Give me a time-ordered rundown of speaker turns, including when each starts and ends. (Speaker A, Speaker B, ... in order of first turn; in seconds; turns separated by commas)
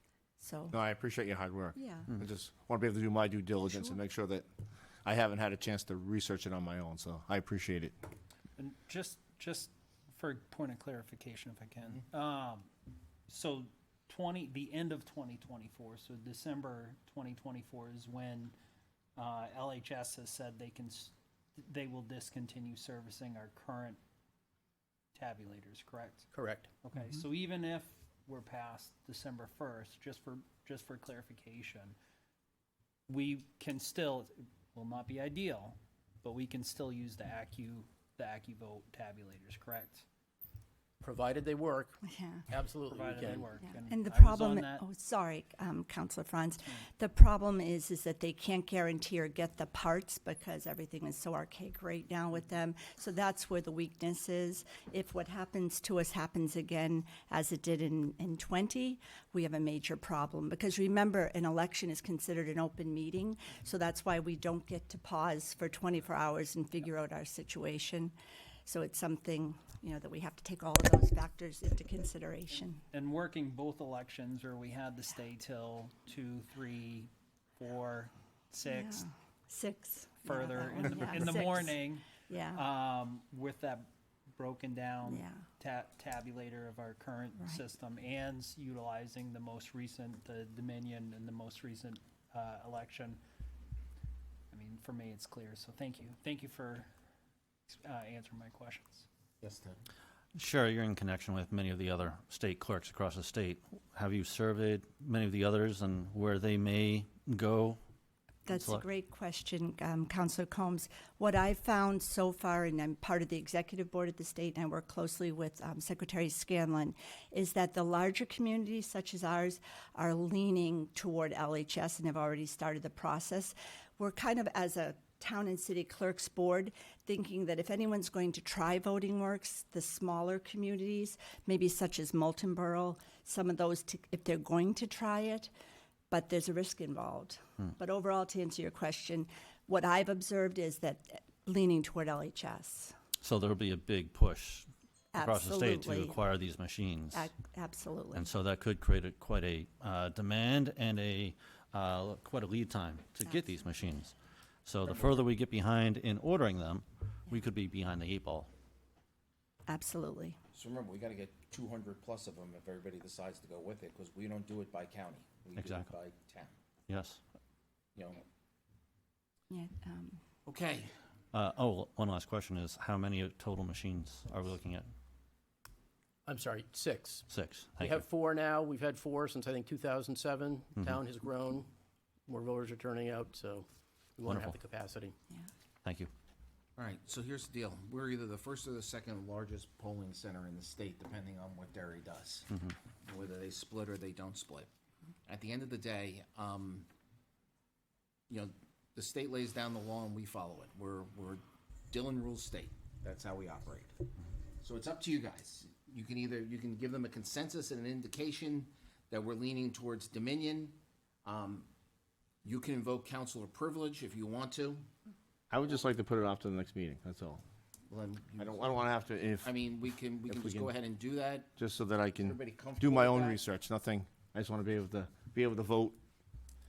Speaker A: 0.4-0.7, Speaker B: 0.7-4.5, Speaker A: 1.8-2.1, Speaker B: 5.0-7.9, Speaker C: 8.6-12.7, Speaker C: 13.3-18.5, Speaker C: 19.1-24.0, Speaker C: 25.1-26.3, Speaker D: 26.3-26.7, Speaker C: 26.8-31.9, Speaker C: 33.1-40.0, Speaker D: 41.0-42.0, Speaker A: 42.0-42.5, Speaker D: 42.5-43.5, Speaker C: 42.9-44.8, Speaker A: 43.7-68.1, Speaker A: 68.7-72.8, Speaker C: 72.9-79.0, Speaker A: 78.6-82.6, Speaker C: 80.2-93.2, Speaker A: 85.0-85.4, Speaker C: 94.5-96.9, Speaker C: 97.7-99.0, Speaker E: 99.4-99.8, Speaker F: 100.3-107.8, Speaker A: 108.5-135.5, Speaker F: 108.5-108.8, Speaker A: 136.1-142.9, Speaker F: 143.2-147.3, Speaker A: 145.1-146.2, Speaker A: 147.1-148.3, Speaker F: 148.1-154.1, Speaker F: 154.7-158.5, Speaker E: 154.8-155.2, Speaker A: 159.7-160.4, Speaker E: 160.5-166.5, Speaker F: 165.6-165.9, Speaker F: 166.9-167.2, Speaker E: 167.9-168.2, Speaker A: 169.5-170.2, Speaker E: 170.4-170.9, Speaker F: 171.3-174.8, Speaker D: 176.2-177.3, Speaker F: 177.3-178.0, Speaker D: 177.8-181.7, Speaker D: 182.3-185.1, Speaker F: 184.2-184.6, Speaker F: 185.8-186.1, Speaker E: 186.8-194.7, Speaker E: 195.2-196.9, Speaker E: 198.3-204.1, Speaker E: 204.6-211.7, Speaker E: 212.4-214.8, Speaker B: 215.5-217.4, Speaker E: 217.9-221.6, Speaker B: 218.4-219.6, Speaker B: 220.3-220.7, Speaker B: 221.6-226.0, Speaker E: 222.1-223.4